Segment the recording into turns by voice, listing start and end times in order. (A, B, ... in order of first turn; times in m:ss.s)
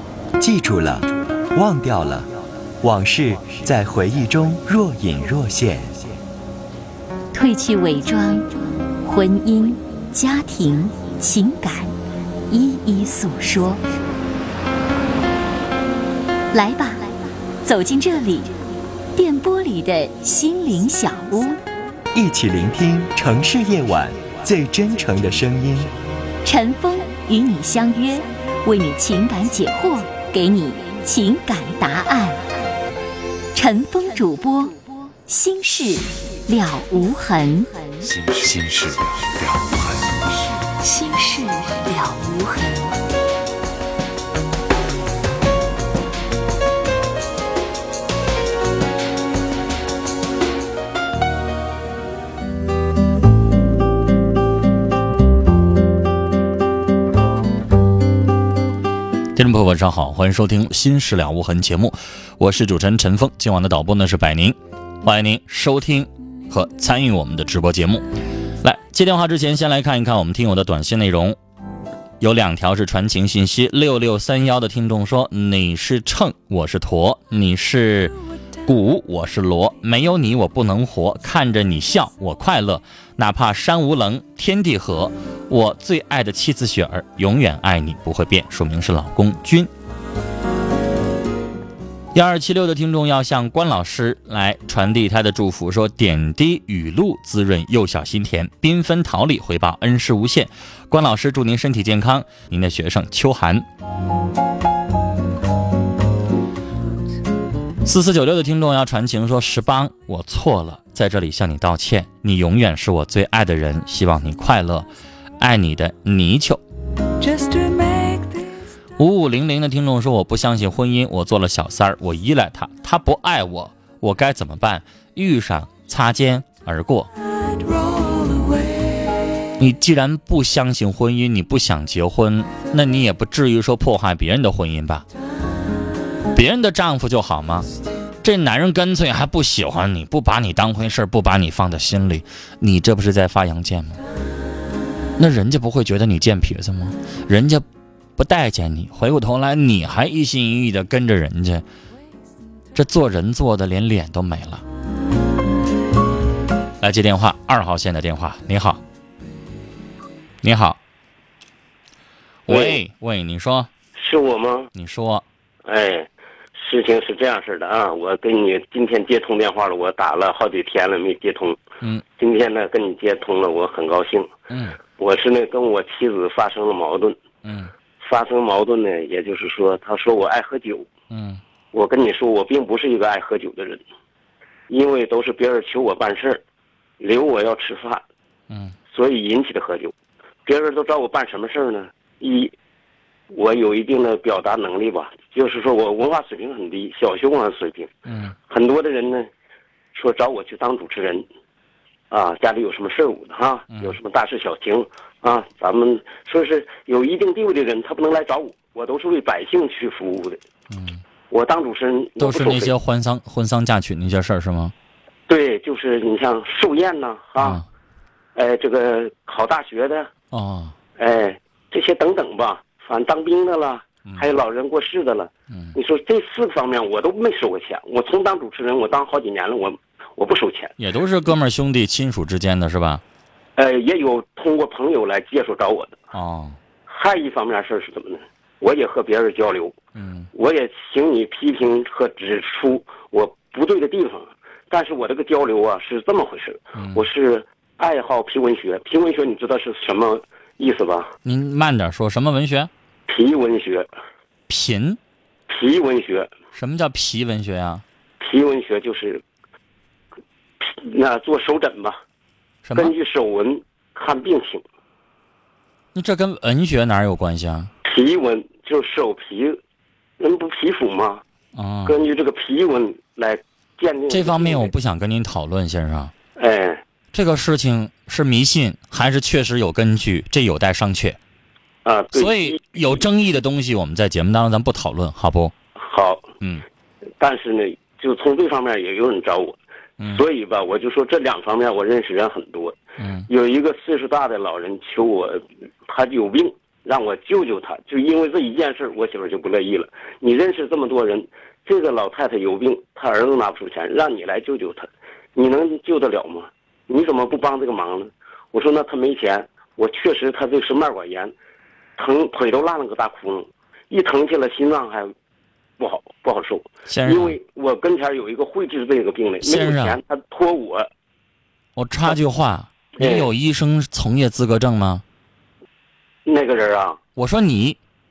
0:00.4-0:06.1 A
0:07.3-0:08.5 B
0:09.0-0:11.9 B
0:12.5-0:13.8 B
0:16.5-0:18.6 B
0:19.2-0:21.6 B
0:22.1-0:26.0 A
0:26.4-0:32.5 B
0:33.5-0:38.1 B
0:38.1-0:40.2 C
0:40.6-0:43.0 B
0:59.4-1:08.1 D
1:08.6-1:11.4 D
1:12.2-1:29.7 D
1:32.1-1:43.7 D
1:47.8-1:54.9 D
1:55.4-1:56.6 D
1:59.0-2:07.1 D
2:09.6-2:15.1 D
2:16.3-2:17.7 D
2:18.2-2:24.0 D
2:25.2-2:27.6 D
2:28.2-2:31.6 D
2:32.7-2:34.6 D
2:36.8-2:38.8 D
2:40.4-2:40.8 D
2:42.5-2:43.7 D
2:42.5-2:42.8 E
2:44.0-2:44.7 E
2:44.8-2:45.2 D
2:45.6-2:51.6 E
2:52.2-2:54.3 E
2:54.5-2:54.8 D
2:55.0-2:57.2 E
2:57.4-2:57.7 D
2:58.0-3:00.9 E
3:01.1-3:01.4 D
3:01.7-3:03.8 E
3:04.7-3:06.4 E
3:07.0-3:08.0 E
3:08.5-3:08.8 D
3:08.9-3:09.9 E
3:10.4-3:12.5 E
3:13.3-3:17.9 E
3:18.1-3:18.3 D
3:18.5-3:19.3 E
3:19.9-3:21.2 E
3:22.1-3:30.4 E
3:30.7-3:31.0 D
3:31.3-3:32.7 E
3:32.2-3:34.7 D
3:35.3-3:37.6 E
3:38.4-3:40.1 E
3:40.3-3:40.8 D
3:41.0-3:50.7 E
3:45.5-3:45.8 D
3:50.8-3:53.0 D
3:53.6-3:56.0 E
3:56.1-3:56.6 D
3:56.9-3:59.8 E
4:00.0-4:00.3 D
4:00.3-4:11.1 E
4:06.8-4:07.0 D
4:11.2-4:12.7 D
4:13.1-4:13.9 E
4:14.5-4:15.0 D
4:15.5-4:16.3 E
4:16.6-4:17.8 D
4:18.2-4:19.2 E
4:20.6-4:22.0 E
4:22.6-4:22.9 D
4:22.8-4:24.6 E
4:26.0-4:27.7 D
4:27.8-4:29.6 E
4:30.2-4:31.2 E
4:31.6-4:32.0 D
4:31.9-4:34.7 E
4:34.1-4:36.1 D
4:36.4-4:36.8 E
4:37.1-4:41.2 D
4:41.8-4:43.0 E
4:42.1-4:45.5 D
4:45.8-4:46.3 E
4:47.2-4:49.6 E
4:50.0-4:50.2 D
4:50.1-5:11.3 E
4:53.0-4:53.3 D
5:12.0-5:15.1 E
5:15.8-5:20.9 E
5:16.9-5:17.4 D
5:19.4-5:20.0 D
5:21.8-5:25.0 D
5:23.0-5:23.3 E
5:26.3-5:27.0 E
5:27.2-5:27.8 D